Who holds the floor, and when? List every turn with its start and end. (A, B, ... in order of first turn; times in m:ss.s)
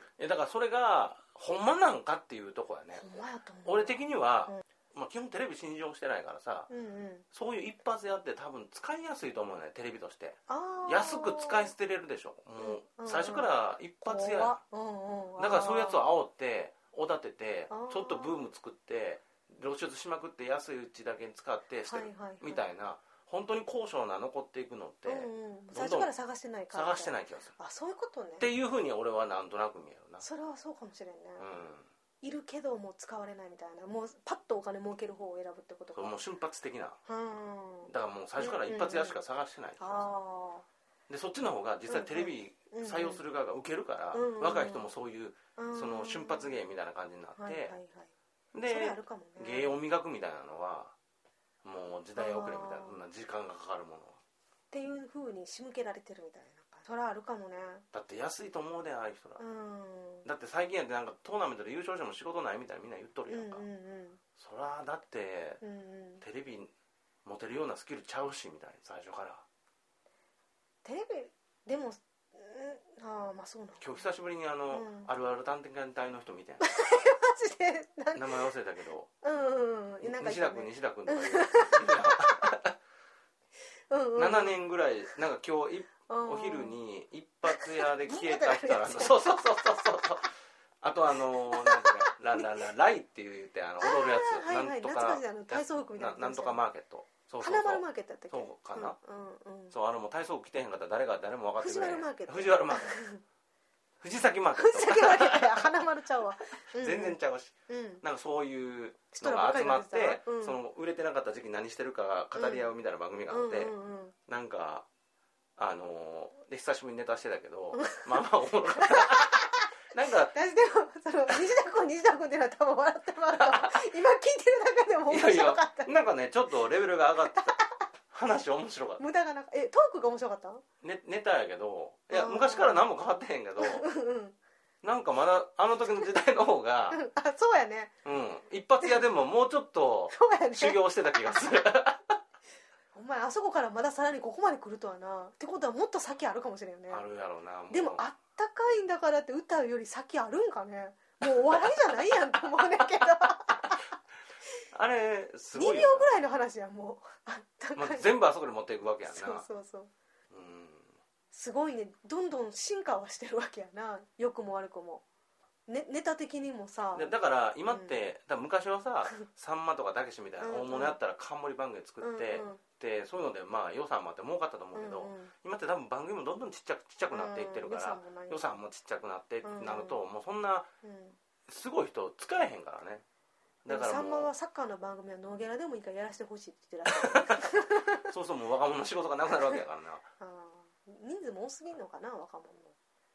0:00.2-0:03.0 A
0:03.0-0:04.6 B
0:03.6-0:06.7 A
0:06.7-0:07.2 B
0:07.3-0:14.6 A
0:10.5-0:11.7 B
0:12.6-0:13.5 B
0:14.0-0:16.0 B
0:15.4-0:26.1 A
0:17.7-0:18.4 B
0:21.9-0:22.6 B
0:25.1-0:28.5 B
0:26.7-0:27.5 A
0:28.4-0:30.2 A
0:30.2-0:31.5 B
0:31.4-0:31.9 A
0:32.2-0:36.2 B
0:35.9-0:37.0 A
0:37.1-0:39.2 B
0:37.9-0:40.1 A
0:39.8-0:40.7 B
0:41.1-0:47.7 A
0:41.9-0:43.2 B
0:44.1-0:44.9 B
0:45.6-0:46.6 B
0:47.4-0:48.1 B
0:48.5-0:50.9 A
0:48.7-0:49.7 B
0:51.6-0:54.2 A
0:52.2-0:53.0 B
0:54.7-0:57.8 B
0:57.9-0:59.4 A
0:59.4-1:00.3 B
1:00.2-1:03.6 A
1:03.3-1:04.2 B
1:04.4-1:05.6 A
1:05.6-1:06.2 B
1:06.2-1:06.7 A
1:07.2-1:09.4 A
1:10.8-1:14.0 B
1:13.8-1:16.7 A
1:14.7-1:15.1 B
1:16.6-1:18.5 B
1:18.2-1:19.1 A
1:19.2-1:22.5 B
1:20.0-1:22.8 A
1:23.9-1:24.6 B
1:24.2-1:39.0 A
1:26.1-1:26.8 B
1:27.5-1:29.3 B
1:31.3-1:32.5 B
1:33.8-1:36.6 B
1:37.4-1:39.8 B
1:39.7-1:43.0 A
1:41.6-1:43.2 B
1:44.0-1:45.7 A
1:44.6-1:48.0 B
1:46.6-1:53.7 A
1:49.1-1:50.6 B
1:52.4-1:52.7 B
1:53.3-1:54.2 B
1:54.3-1:54.9 A
1:55.6-2:00.3 A
1:57.7-1:59.7 B
2:00.3-2:05.9 B
2:03.3-2:03.8 A
2:05.1-2:07.6 A
2:07.3-2:07.8 B
2:08.1-2:09.0 A
2:09.0-2:10.6 B
2:10.8-2:13.9 A
2:12.1-2:12.8 B
2:13.6-2:14.4 B
2:14.8-2:17.0 A
2:16.9-2:17.9 B
2:18.0-2:22.2 A
2:20.1-2:20.8 B
2:22.9-2:27.0 B
2:26.9-2:28.0 A
2:27.7-2:33.9 B
2:31.4-2:33.0 A
2:34.7-2:36.1 A
2:35.5-2:38.1 B
2:37.8-2:39.5 A
2:39.1-2:39.9 B
2:40.3-2:40.9 A
2:41.3-2:45.0 B
2:45.7-2:47.1 B
2:46.9-3:00.7 A
2:47.7-2:48.0 B
2:50.4-2:51.0 B
2:52.0-2:52.6 B
2:54.7-2:55.3 B
2:57.1-2:58.5 B
2:59.4-3:00.0 B
3:00.8-3:01.2 B
3:01.5-3:03.0 A
3:03.6-3:04.3 A
3:03.7-3:08.1 B
3:06.9-3:10.1 A
3:10.2-3:12.8 B